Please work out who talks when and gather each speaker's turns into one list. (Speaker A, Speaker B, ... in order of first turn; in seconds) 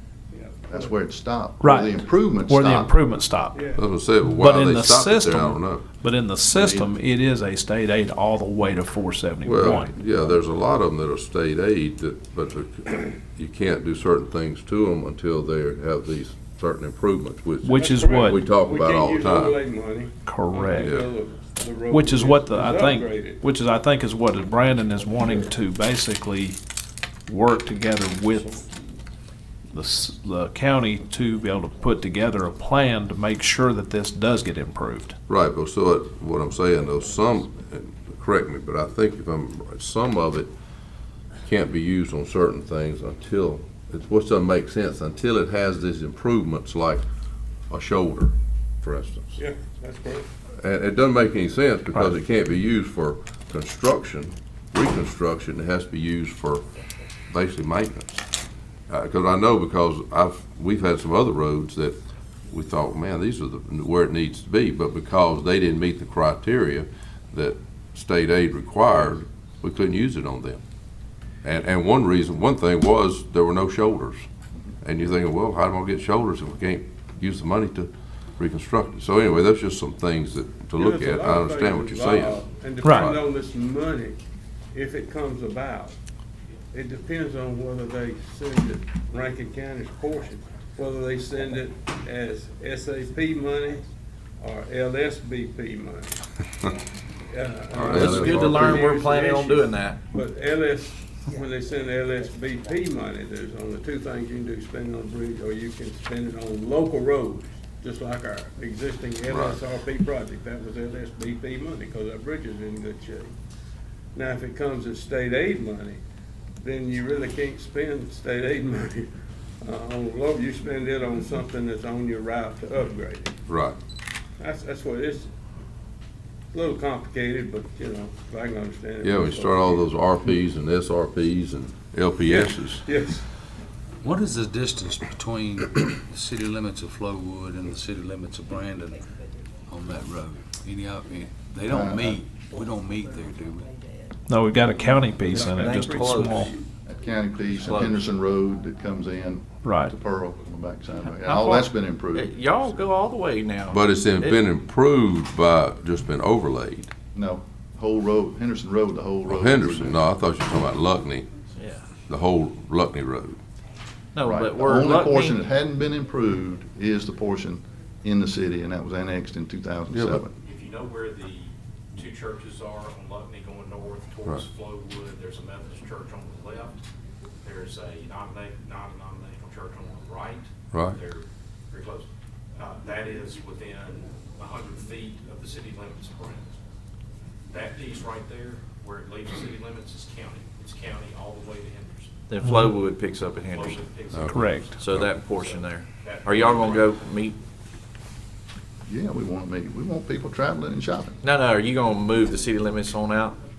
Speaker A: 0.3-0.9, 3.5-3.9, 17.7-23.4, 25.1-25.5, 49.3-50.3, 80.8-84.2, 84.7-86.0, 86.7-93.9, 94.4-96.2, 97.2-113.3, 114.1-116.0, 116.6-119.1, 119.6-123.3, 124.4-125.3, 126.5-129.8, 132.2-133.2, 145.2-146.6
Speaker B: 0.7-3.0, 6.5-6.9, 141.6-142.2, 146.8-152.4, 157.1-160.0, 164.2-170.3, 198.9-201.2
Speaker C: 1.6-3.6, 4.2-9.9, 17.6-18.4, 20.2-21.0, 21.9-26.6, 27.3-28.7, 29.7-35.2, 82.8-83.2, 144.3-146.5, 149.6-149.9, 151.2-151.6, 192.4-192.7, 194.3-194.8
Speaker D: 3.7-5.9, 9.4-19.6, 20.8-21.1, 35.3-40.5, 41.5-47.0, 47.7-49.4, 50.6-56.7, 57.3-58.2, 58.9-70.6, 71.4-74.2, 74.8-82.4, 97.7-98.8, 109.3-109.6, 123.5-123.8, 129.0-132.9, 153.7-156.9, 159.2-161.3, 162.0-163.4, 169.9-170.2, 180.7-181.0, 194.1-195.1
Speaker E: 97.9-100.0, 145.3-146.4, 147.6-148.1, 152.1-154.4, 161.6-161.9, 164.2-165.4, 192.3-197.4, 201.2-203.4
Speaker F: 134.0-139.1, 139.7-143.7
Speaker G: 170.3-176.8, 177.4-186.6, 187.5-192.2, 193.5-197.0